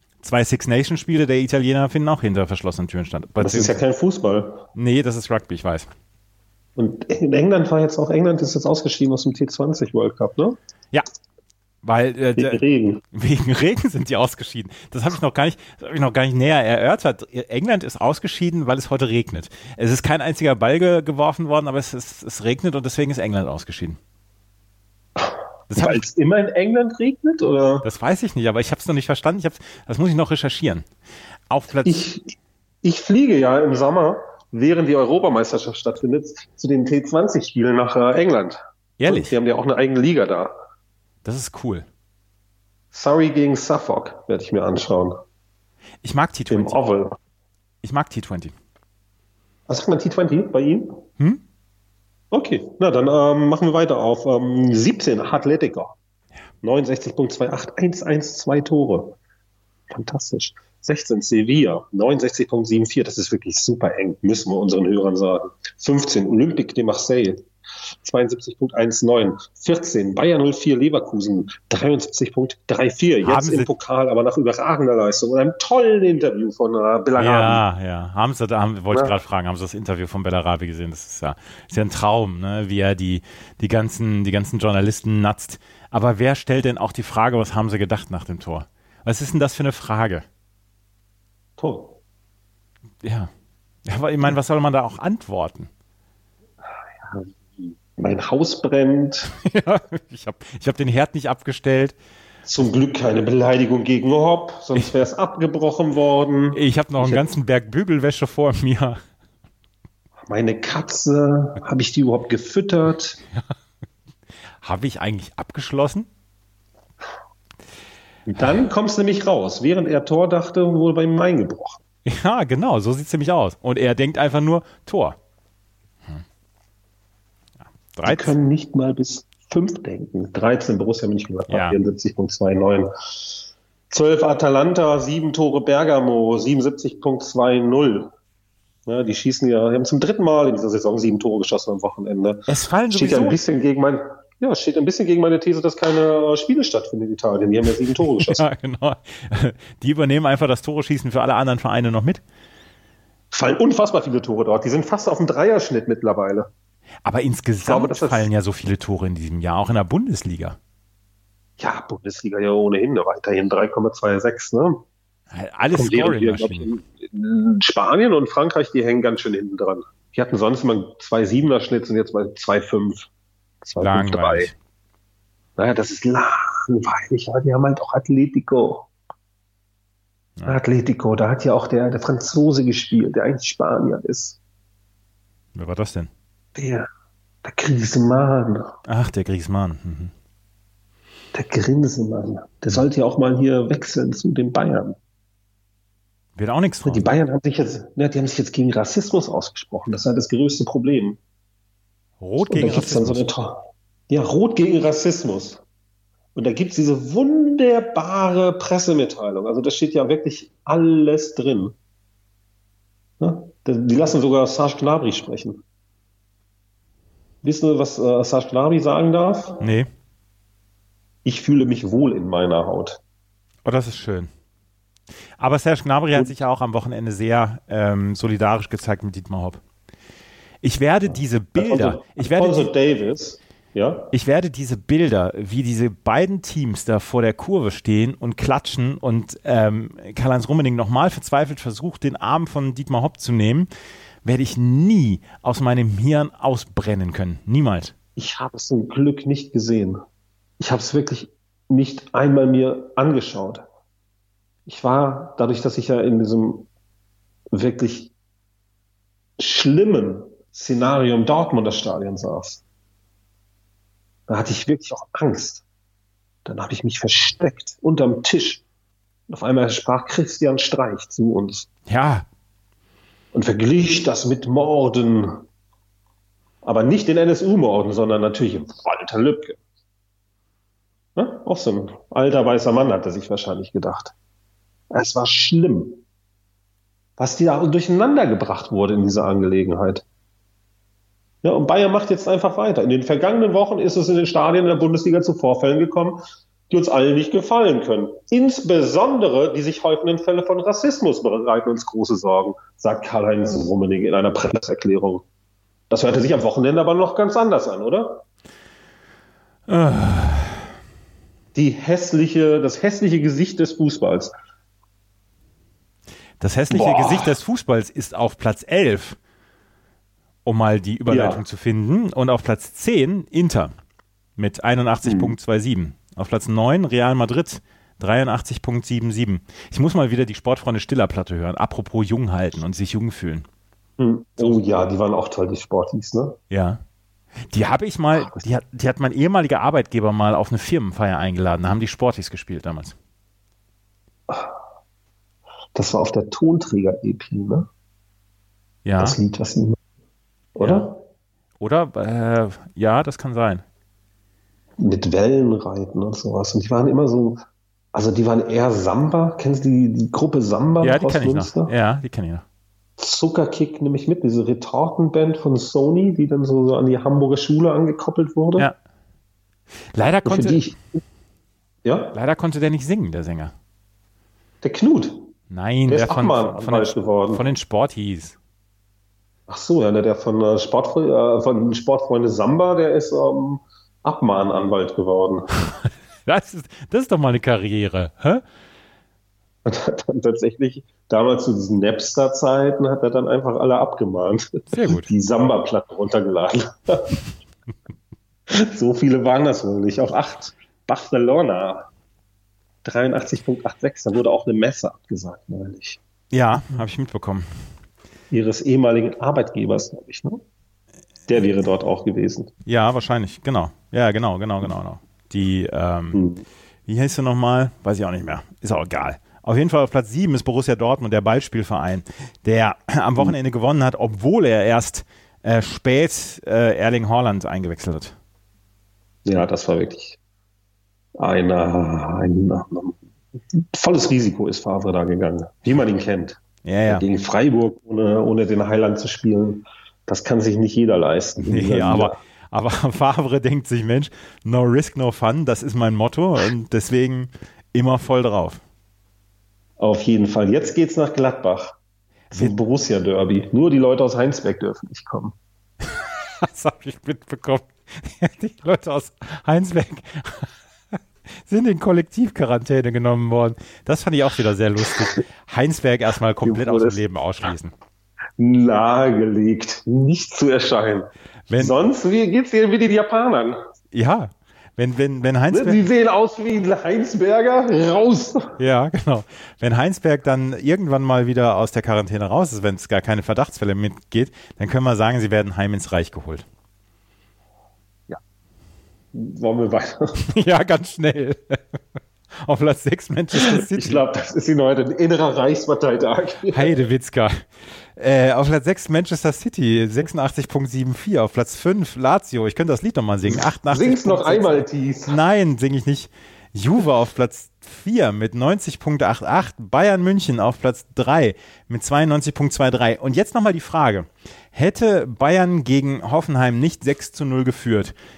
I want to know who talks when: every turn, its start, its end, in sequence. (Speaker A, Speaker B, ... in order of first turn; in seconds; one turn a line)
Speaker A: 0.2-3.8
Speaker B: 3.4-4.6
Speaker A: 4.8-5.9
Speaker B: 6.8-10.6
Speaker A: 11.8-12.6
Speaker B: 12.4-13.0
Speaker A: 13.1-24.0
Speaker B: 25.2-27.9
Speaker A: 25.7-26.0
Speaker A: 27.8-30.9
Speaker A: 31.5-32.0
Speaker B: 31.9-40.5
Speaker A: 39.0-39.3
Speaker A: 41.2-41.9
Speaker B: 42.9-45.2
Speaker A: 46.0-46.8
Speaker B: 46.5-47.2
Speaker A: 47.8-48.5
Speaker B: 49.7-51.0
Speaker B: 52.3-56.0
Speaker B: 56.6-59.2
Speaker B: 59.9-67.5
Speaker B: 68.0-77.6
Speaker A: 73.2-73.7
Speaker A: 77.2-90.2
Speaker B: 91.6-92.0
Speaker A: 93.0-93.3
Speaker A: 93.9-95.7
Speaker B: 96.9-99.3
Speaker A: 99.3-102.0
Speaker B: 102.5-107.2
Speaker A: 106.5-109.0
Speaker B: 110.3-113.2
Speaker A: 114.6-116.1
Speaker B: 118.3-121.8
Speaker A: 122.1-125.2
Speaker A: 128.0-128.3
Speaker B: 128.1-138.1
Speaker A: 131.5-131.8
Speaker B: 138.9-148.4
Speaker A: 142.5-143.4
Speaker A: 148.2-152.2
Speaker B: 153.3-156.5
Speaker A: 157.1-160.6
Speaker B: 157.6-158.3
Speaker B: 161.6-164.8
Speaker A: 165.3-166.7
Speaker B: 165.7-173.1
Speaker B: 173.6-174.5
Speaker A: 173.8-174.5
Speaker B: 175.6-178.9
Speaker B: 180.5-184.4
Speaker A: 185.6-186.1
Speaker B: 186.6-186.9
Speaker B: 187.4-188.7
Speaker A: 188.9-190.1
Speaker B: 191.3-195.0
Speaker A: 196.4-197.1
Speaker B: 196.8-201.2
Speaker A: 202.2-203.3
Speaker B: 202.5-205.6
Speaker B: 206.3-211.8
Speaker B: 213.2-215.6
Speaker B: 217.4-219.6
Speaker A: 219.6-219.9
Speaker B: 221.2-223.0
Speaker A: 223.7-224.3
Speaker A: 225.4-229.6
Speaker A: 230.6-232.7
Speaker B: 231.1-234.1
Speaker A: 234.1-243.7
Speaker A: 244.2-247.9
Speaker B: 248.2-250.0
Speaker B: 250.6-253.7
Speaker B: 254.7-256.7
Speaker B: 257.5-258.1
Speaker B: 259.4-262.6
Speaker B: 264.3-265.6
Speaker B: 266.4-268.6
Speaker B: 269.3-271.7
Speaker A: 271.9-272.3
Speaker B: 273.3-275.4
Speaker B: 276.6-279.6
Speaker B: 281.2-284.1
Speaker B: 284.9-286.0
Speaker B: 287.2-290.0
Speaker B: 291.4-305.2
Speaker B: 305.9-308.2
Speaker A: 309.7-310.7
Speaker B: 311.6-314.3
Speaker A: 316.4-319.2
Speaker B: 316.7-317.4
Speaker A: 320.4-323.7
Speaker B: 321.1-321.4
Speaker A: 324.4-333.5
Speaker B: 325.1-325.4
Speaker B: 334.0-336.4
Speaker A: 336.5-336.8
Speaker A: 337.5-342.9
Speaker B: 338.2-338.4
Speaker B: 345.8-347.7
Speaker A: 348.9-349.2
Speaker B: 349.0-349.8
Speaker B: 350.6-351.0
Speaker A: 350.6-350.9
Speaker A: 351.6-353.6
Speaker B: 354.8-357.4
Speaker B: 357.9-361.7
Speaker A: 360.8-362.4
Speaker B: 363.0-368.7
Speaker A: 369.9-370.6
Speaker B: 370.2-371.0
Speaker B: 371.9-372.1
Speaker A: 372.1-373.5
Speaker B: 374.6-375.3
Speaker A: 375.5-378.4
Speaker B: 375.9-377.5
Speaker B: 379.5-385.5
Speaker A: 386.3-388.4
Speaker B: 389.6-397.2
Speaker A: 394.7-395.1
Speaker B: 398.5-401.9
Speaker B: 402.8-406.0
Speaker A: 406.3-407.4
Speaker B: 408.3-410.4
Speaker B: 411.3-412.5
Speaker A: 412.6-416.2
Speaker B: 416.1-416.4
Speaker A: 416.9-428.1
Speaker B: 429.2-430.2
Speaker B: 431.2-433.0
Speaker B: 433.5-442.2
Speaker A: 436.6-437.1
Speaker A: 441.4-448.6
Speaker B: 449.8-451.8
Speaker B: 452.3-455.4
Speaker A: 456.4-460.5
Speaker A: 461.5-467.7
Speaker B: 464.9-465.2
Speaker B: 466.4-467.0
Speaker B: 468.4-473.6
Speaker A: 471.5-471.8
Speaker A: 473.9-475.9
Speaker B: 475.5-478.6
Speaker A: 478.6-486.4
Speaker B: 489.1-490.2
Speaker A: 490.3-491.6
Speaker A: 492.4-494.0
Speaker B: 493.3-496.8
Speaker A: 496.5-497.4
Speaker A: 498.0-517.9
Speaker B: 503.3-505.2